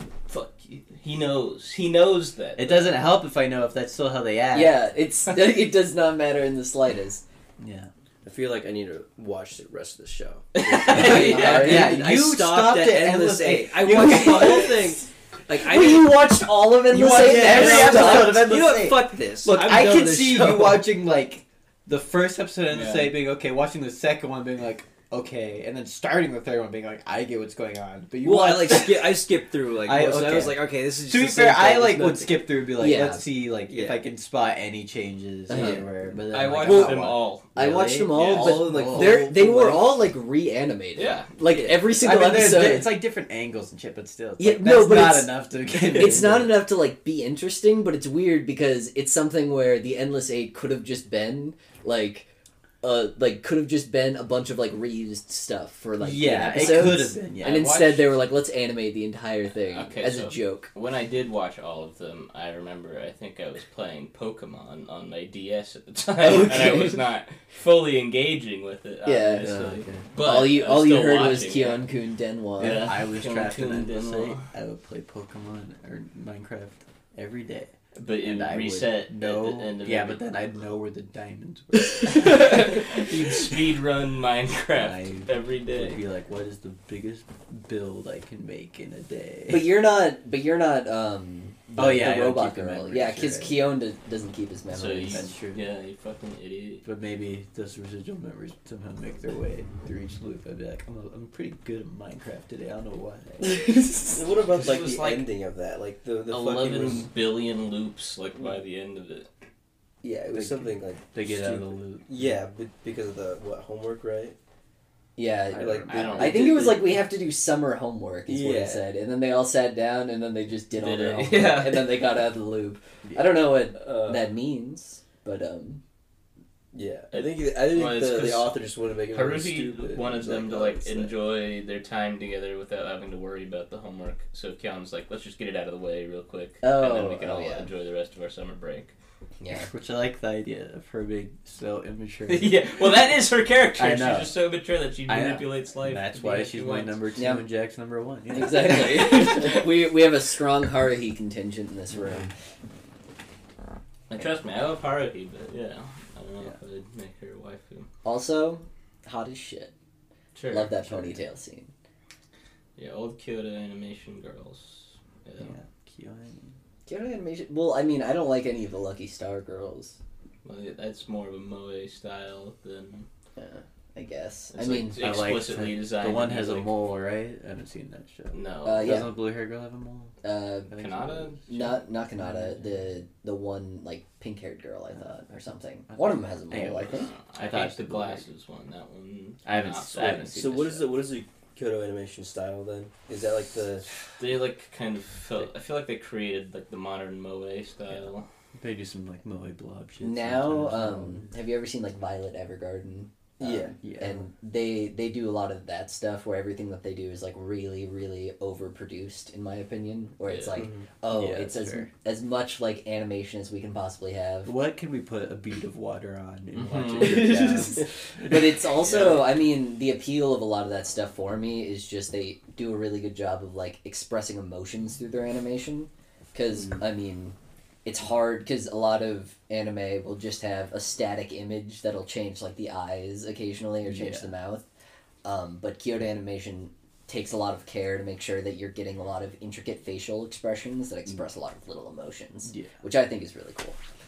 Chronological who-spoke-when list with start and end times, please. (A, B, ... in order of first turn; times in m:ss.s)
0:00.3-0:03.0 A
0:02.6-0:04.8 B
0:04.5-0:07.2 C
0:07.6-0:07.9 B
0:08.2-0:16.2 D
0:10.6-0:11.9 A
0:10.9-0:14.8 B
0:10.9-0:11.9 C
0:13.6-0:14.8 C
0:15.6-0:18.6 C
0:16.9-0:20.9 D
0:16.9-0:29.2 B
0:22.7-0:23.2 A
0:28.2-0:32.6 D
0:29.8-0:39.3 B
0:32.7-0:33.2 C
0:33.7-0:34.0 D
0:35.5-0:35.9 C
0:36.3-0:37.5 A
0:36.6-0:43.0 C
0:38.1-0:38.6 A
0:38.2-0:39.8 D
0:41.0-0:41.3 A
0:41.5-0:41.8 D
0:41.8-0:46.6 B
0:44.4-0:52.3 C
0:45.8-0:46.5 D
0:52.8-1:00.7 C
0:56.0-0:58.0 B
0:56.4-0:57.0 A
0:57.5-0:57.9 A
0:59.6-1:11.9 A
1:06.2-1:07.0 C
1:09.0-1:12.9 C
1:09.4-1:10.0 D
1:12.6-1:22.7 B
1:12.6-1:14.5 A
1:18.0-1:20.3 A
1:22.1-1:26.0 A
1:24.8-1:29.7 B
1:29.5-1:35.3 C
1:31.8-1:33.6 B
1:34.7-1:36.8 A
1:35.1-1:35.6 B
1:36.8-1:43.6 B
1:43.5-1:44.2 C
1:44.1-1:47.1 D
1:44.5-1:45.2 A
1:46.3-1:49.3 A
1:50.0-1:54.4 D
1:50.3-1:52.4 B
1:55.2-2:05.8 C
1:55.5-1:56.2 B
1:55.5-1:56.9 D
1:55.9-1:56.5 A
1:58.3-1:58.9 D
2:00.7-2:02.0 A
2:03.7-2:04.3 D
2:06.7-2:11.2 D
2:07.1-2:08.6 A
2:09.1-2:18.9 A
2:16.6-2:17.7 C
2:19.4-2:19.7 C
2:19.5-2:22.8 B
2:22.3-2:27.0 A
2:23.8-2:24.4 B
2:25.1-2:29.4 B
2:27.2-2:27.5 C
2:28.3-2:32.3 C
2:34.1-2:37.9 A
2:38.0-2:39.7 C
2:40.4-2:40.8 A
2:40.5-2:41.7 C
2:40.9-2:41.2 B
2:42.8-2:45.6 A
2:45.4-2:46.6 B
2:46.9-2:50.0 C
2:50.4-2:53.1 A
2:53.4-2:55.0 C
2:54.5-2:56.7 A
2:55.0-3:00.2 B
2:58.3-2:59.0 A
2:58.6-2:59.1 C
3:00.2-3:00.7 C
3:00.7-3:01.5 B
3:00.7-3:01.8 A
3:01.5-3:07.1 C
3:02.2-3:02.7 B
3:05.9-3:08.2 B
3:06.9-3:10.6 A
3:09.4-3:10.9 B
3:10.3-3:13.9 D
3:14.2-3:18.3 A
3:18.6-3:21.3 B
3:20.0-3:34.5 C
3:23.4-3:23.8 D
3:23.8-3:24.2 B
3:30.2-3:30.6 A
3:30.6-3:30.9 D
3:31.1-3:31.9 B
3:34.4-3:38.4 B
3:36.6-3:37.6 A
3:37.0-3:54.7 C
3:38.8-3:39.3 A
3:53.9-3:54.3 B
3:55.2-4:03.8 C